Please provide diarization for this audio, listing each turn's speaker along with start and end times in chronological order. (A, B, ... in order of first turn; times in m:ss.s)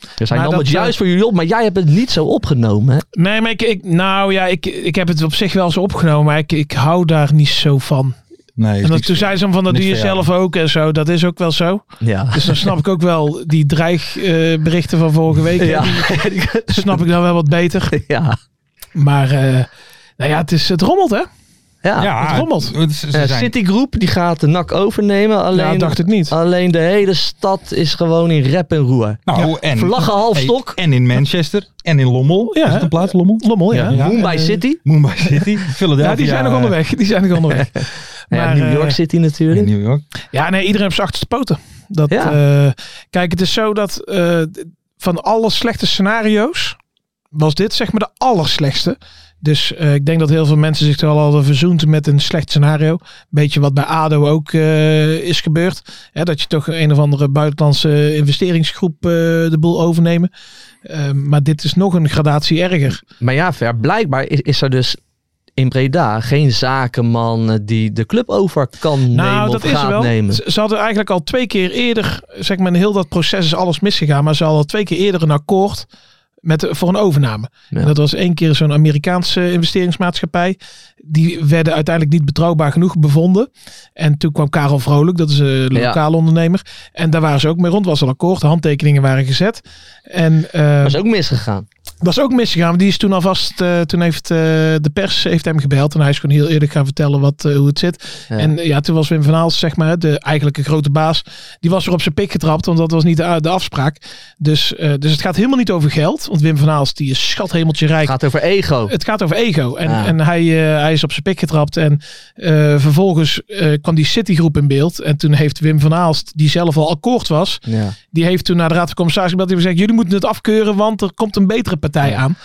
0:00.2-0:03.0 A
0:00.3-0:00.9 B
0:03.1-0:08.2 B
0:08.6-0:10.2 C
0:08.8-0:18.0 B
0:12.0-0:12.7 A
0:15.6-0:17.0 A
0:17.9-0:18.4 A
0:18.9-0:19.7 B
0:20.2-0:21.3 B
0:21.8-0:22.1 A
0:22.0-0:23.5 C
0:22.2-0:22.7 B
0:23.1-0:30.8 A
0:25.5-0:26.3 B
0:29.3-0:34.3 C
0:32.5-0:34.6 B
0:33.7-0:34.8 A
0:34.8-0:36.8 C
0:36.0-0:39.0 B
0:38.3-0:39.7 A
0:39.5-0:40.0 C
0:40.3-0:46.8 B
0:42.1-0:42.4 A
0:47.3-1:00.3 B
1:00.8-1:03.0 B
1:03.2-1:05.0 A
1:05.6-1:10.4 A
1:09.1-1:15.9 B
1:16.4-1:31.0 B
1:25.7-1:26.0 A
1:30.8-1:31.7 A
1:32.0-1:48.2 B
1:48.0-1:48.9 A
1:48.9-2:02.3 B
1:49.8-1:50.1 A
1:57.6-1:57.9 A